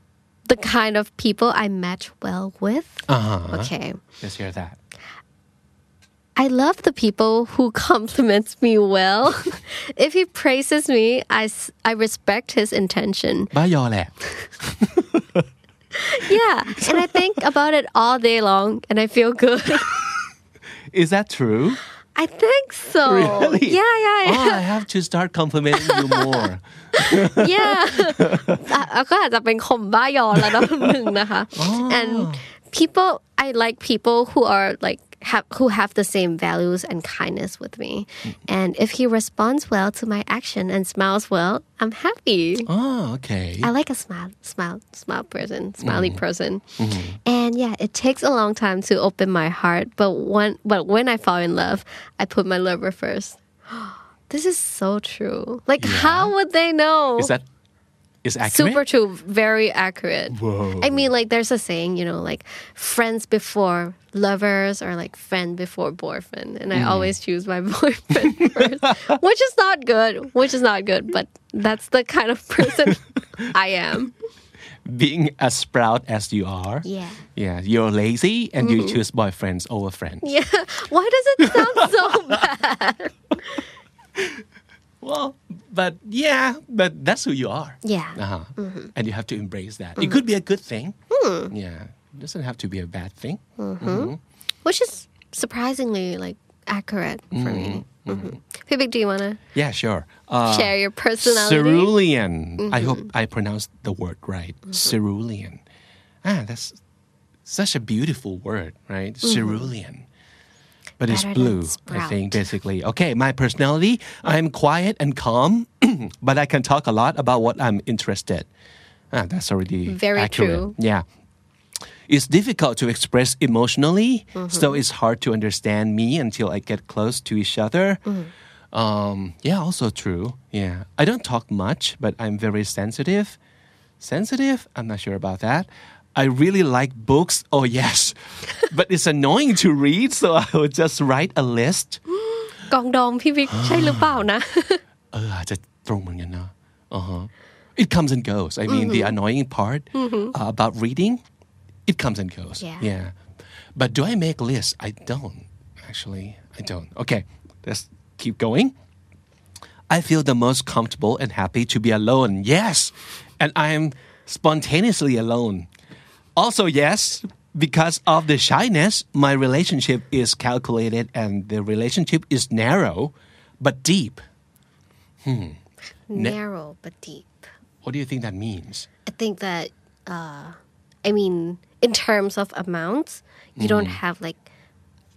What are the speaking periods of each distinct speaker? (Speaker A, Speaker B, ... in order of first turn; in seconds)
Speaker A: 0.5-4.0, 6.4-13.5, 15.9-19.9, 22.1-24.6, 25.8-42.7, 43.6-57.3, 58.4-74.1, 76.8-77.2, 78.6-79.0, 80.2-83.6, 87.8-88.9, 91.1-91.5, 93.6-94.1, 94.6-99.4, 100.5-101.9, 102.6-103.1, 109.2-109.7, 111.1-112.5, 119.9-120.7, 124.3-124.8, 142.3-144.8, 148.7-149.2, 149.9-150.3, 152.6-152.9, 176.1-177.5, 179.1-184.4
Speaker B: 3.1-4.8, 13.5-15.4, 16.7-17.4, 20.9-21.8, 23.0-28.7, 30.4-32.4, 42.6-43.7, 45.8-46.2, 46.8-47.2, 55.8-56.3, 57.2-57.4, 58.2-58.8, 60.3-61.0, 66.7-67.1, 68.2-69.1, 72.6-72.9, 74.8-80.2, 81.4-82.4, 84.2-84.4, 85.0-91.0, 91.5-94.2, 97.3-98.4, 99.5-105.6, 106.2-106.8, 107.4-110.1, 111.0-118.5, 119.1-121.0, 122.1-128.0, 128.7-133.4, 134.0-142.0, 143.5-144.2, 145.1-151.2, 151.8-153.1, 153.7-158.7, 159.9-165.7, 166.3-174.2, 175.2-175.6, 177.8-178.9, 183.6-184.0